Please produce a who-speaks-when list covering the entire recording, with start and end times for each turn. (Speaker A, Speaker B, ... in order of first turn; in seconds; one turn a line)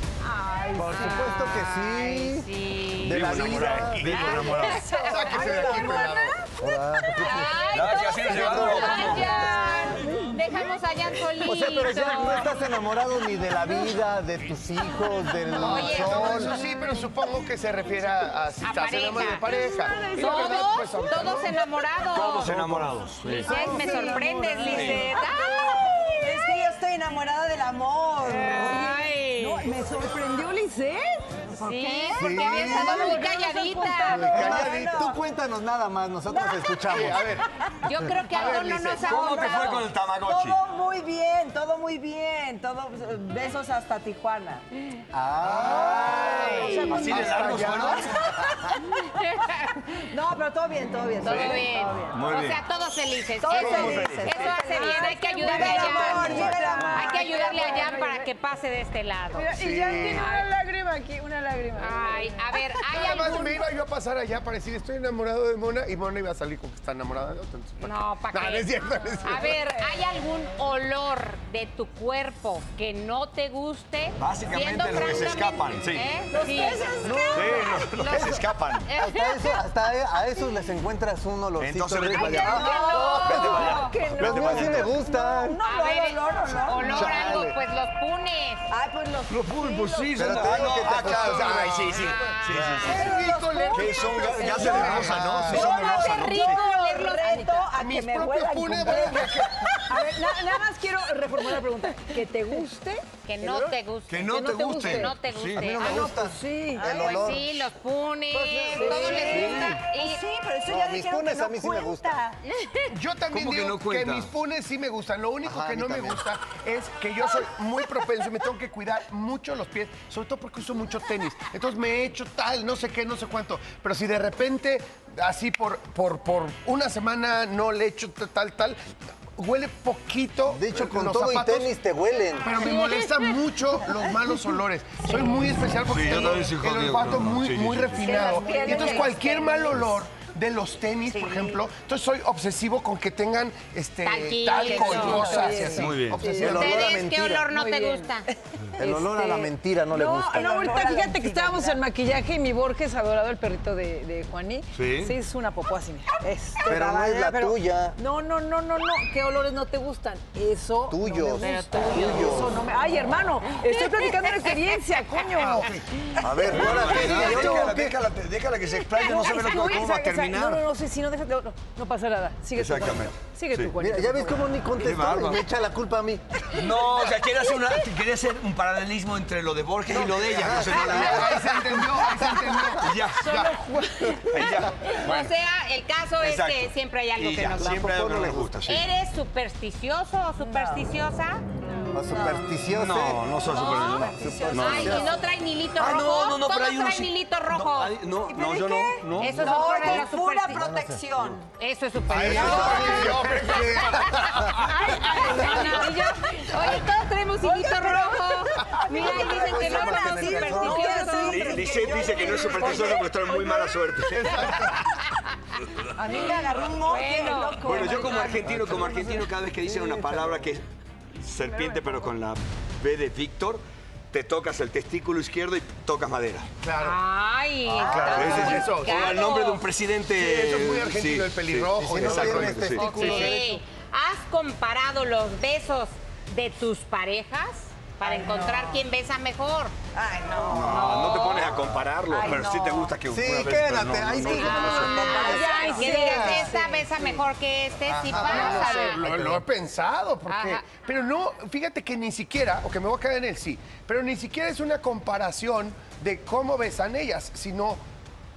Speaker A: 0.3-1.0
Speaker B: 0.7-5.9
Speaker C: 0.7-4.6
Speaker D: 3.0-5.0
Speaker E: 5.0-6.4
Speaker A: 5.1-6.3
Speaker C: 6.6-7.6
Speaker B: 7.2-12.6
Speaker D: 7.7-9.4
Speaker C: 8.2-9.3
Speaker C: 11.4-16.6
Speaker E: 15.5-21.6
Speaker B: 15.5-16.6
Speaker B: 18.6-22.5
Speaker F: 19.5-20.7
Speaker D: 22.1-23.8
Speaker C: 22.5-22.9
Speaker B: 23.2-25.8
Speaker A: 23.4-25.1
Speaker F: 23.6-25.2
Speaker D: 24.6-25.1
Speaker A: 25.7-28.9
Speaker B: 28.2-29.7
Speaker F: 28.5-34.6
Speaker B: 31.6-34.7
Speaker A: 31.9-33.1
Speaker C: 32.1-33.2
Speaker C: 34.1-37.3
Speaker A: 34.3-35.2
Speaker E: 36.9-37.4
Speaker B: 37.8-39.9
Speaker E: 38.0-39.2
Speaker D: 39.0-40.6
Speaker A: 39.1-39.6
Speaker A: 40.2-44.6
Speaker C: 45.1-48.0
Speaker D: 45.5-48.3
Speaker B: 46.2-46.8
Speaker A: 46.2-48.0
Speaker E: 46.9-48.0
Speaker B: 48.6-49.9
Speaker A: 50.0-52.2
Speaker B: 51.2-60.5
Speaker D: 51.2-52.6
Speaker A: 53.4-57.8
Speaker D: 53.5-54.5
Speaker F: 54.4-58.3
Speaker D: 56.1-57.1
Speaker F: 59.3-63.6
Speaker E: 59.6-60.2
Speaker B: 61.8-63.6
Speaker E: 62.9-69.6
Speaker B: 67.8-68.7
Speaker B: 69.2-79.6
Speaker D: 74.2-76.1
Speaker F: 76.3-77.4
Speaker A: 76.3-77.4
Speaker C: 77.0-78.4
Speaker D: 77.3-78.9
Speaker C: 79.0-82.6
Speaker D: 81.6-84.9
Speaker B: 82.2-84.0
Speaker A: 82.3-83.7
Speaker F: 82.6-84.8
Speaker C: 83.3-85.6
Speaker A: 84.5-87.2
Speaker B: 85.6-88.7
Speaker C: 86.9-87.6
Speaker A: 88.7-90.6
Speaker D: 89.3-93.1
Speaker C: 90.2-93.0
Speaker E: 90.8-95.7
Speaker B: 91.8-93.2
Speaker A: 92.9-93.9
Speaker D: 93.7-96.6
Speaker F: 94.0-95.0
Speaker C: 94.7-95.7
Speaker A: 95.4-100.5
Speaker B: 95.5-97.5
Speaker F: 97.2-97.7
Speaker E: 97.7-99.9
Speaker F: 98.8-103.8
Speaker B: 103.2-106.2
Speaker D: 104.1-105.8
Speaker F: 104.3-105.1
Speaker C: 105.6-107.6
Speaker F: 105.8-106.9
Speaker A: 106.8-107.3
Speaker B: 106.8-110.2
Speaker C: 108.3-109.8
Speaker A: 108.7-112.3
Speaker F: 108.8-109.5
Speaker D: 109.3-109.8
Speaker C: 110.7-112.2
Speaker E: 112.9-128.8
Speaker D: 113.3-114.3
Speaker C: 115.4-116.2
Speaker E: 129.3-131.7
Speaker C: 130.5-132.6
Speaker E: 132.4-146.9
Speaker F: 132.6-133.2
Speaker D: 135.8-138.3
Speaker A: 138.0-139.8
Speaker A: 141.1-141.6
Speaker B: 144.0-145.4
Speaker F: 144.6-146.8
Speaker A: 144.8-145.6
Speaker D: 145.7-146.2
Speaker C: 146.1-147.5
Speaker B: 146.4-148.3
Speaker F: 147.5-148.2
Speaker F: 148.8-167.4
Speaker C: 148.8-150.6
Speaker A: 150.3-151.8
Speaker D: 154.7-155.1
Speaker C: 156.7-158.0
Speaker C: 160.9-162.6
Speaker B: 161.4-162.5
Speaker B: 163.8-164.5
Speaker E: 165.3-165.8
Speaker C: 166.2-167.9
Speaker D: 166.4-170.6
Speaker F: 168.8-174.4
Speaker E: 169.2-169.7
Speaker D: 172.5-173.7
Speaker C: 173.8-176.4
Speaker D: 174.8-175.4
Speaker D: 176.5-181.5
Speaker C: 179.9-182.8
Speaker E: 180.8-183.6
Speaker D: 182.8-183.5
Speaker F: 183.2-184.4
Speaker D: 184.2-185.3
Speaker B: 184.9-187.8
Speaker D: 186.2-188.9
Speaker C: 187.5-188.6
Speaker B: 188.7-191.4
Speaker A: 190.4-190.8
Speaker C: 191.9-195.2
Speaker A: 192.1-192.5
Speaker D: 192.7-194.9
Speaker B: 193.4-198.0
Speaker A: 193.7-195.1
Speaker D: 195.8-200.1
Speaker A: 198.3-201.5
Speaker B: 199.2-200.6
Speaker C: 200.5-201.1
Speaker B: 201.6-211.6
Speaker C: 202.1-204.6
Speaker E: 202.2-204.9
Speaker D: 202.4-202.9
Speaker F: 205.2-206.8
Speaker A: 207.4-208.2
Speaker F: 207.4-208.3
Speaker A: 208.9-213.1
Speaker C: 208.9-210.9
Speaker F: 210.5-213.0
Speaker D: 211.2-214.8
Speaker E: 214.2-214.7
Speaker A: 215.9-218.6
Speaker B: 216.1-218.1
Speaker D: 217.6-220.7
Speaker C: 218.4-220.5
Speaker D: 221.2-226.5
Speaker F: 221.6-221.8
Speaker E: 226.6-227.0
Speaker B: 226.8-229.6
Speaker C: 227.7-228.7
Speaker E: 227.8-229.1
Speaker D: 227.8-233.1
Speaker E: 230.1-233.3
Speaker C: 231.8-233.5
Speaker B: 232.8-239.7
Speaker A: 238.0-238.8
Speaker A: 239.9-241.6
Speaker D: 240.5-245.1
Speaker B: 240.7-241.5
Speaker A: 242.1-242.9
Speaker C: 243.1-246.4
Speaker B: 244.2-249.0
Speaker F: 244.9-247.2
Speaker A: 245.0-246.2
Speaker C: 247.8-249.4
Speaker E: 248.1-257.8
Speaker F: 248.5-248.9
Speaker B: 250.3-250.6